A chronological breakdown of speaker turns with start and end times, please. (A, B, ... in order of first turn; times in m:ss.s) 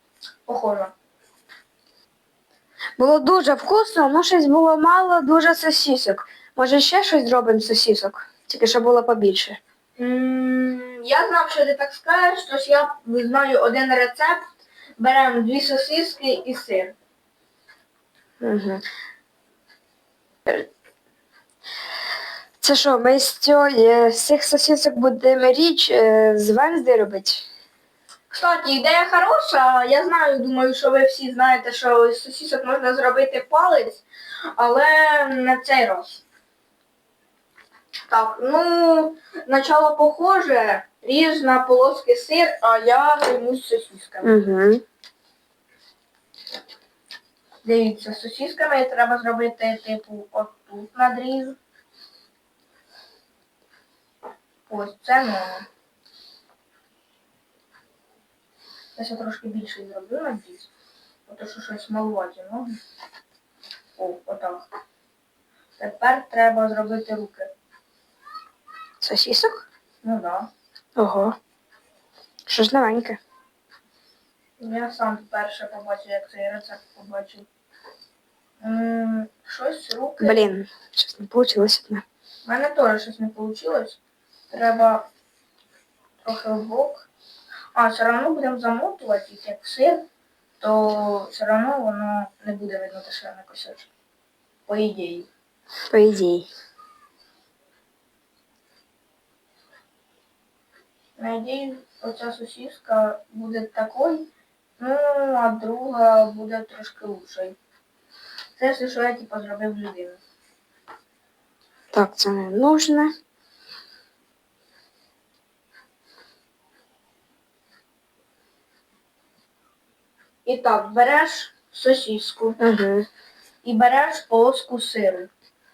0:00.5-0:00.9 A
0:03.0-0:09.6 B
0:10.0-0:14.4 A
0:15.0-0:16.9 A
0:18.4-0:18.8 B
0:22.6-0:27.5 B
0:28.3-0:34.0 A
0:34.6-0:36.2 A
0:38.1-0:44.4 A
0:44.2-0:44.8 B
0:47.6-0:51.6 A
0:54.7-0:55.7 A
0:59.0-1:00.7 A
1:01.3-1:02.8 A
1:04.0-1:04.7 A
1:05.8-1:07.5 A
1:09.0-1:09.6 B
1:10.0-1:10.5 A
1:11.0-1:11.4 B
1:12.5-1:13.2 B
1:14.6-1:17.5 A
1:18.6-1:20.5 A
1:20.2-1:22.0 B
1:22.4-1:24.0 A
1:24.5-1:25.1 A
1:26.2-1:27.1 A
1:27.8-1:30.1 A
1:30.6-1:33.9 A
1:34.7-1:35.3 A
1:35.9-1:36.5 B
1:41.2-1:44.3 A
1:44.8-1:47.6 A
1:48.6-1:50.2 A
1:51.9-1:53.1 B
2:00.4-2:02.6 A
2:02.6-2:03.1 B
2:03.6-2:05.3 A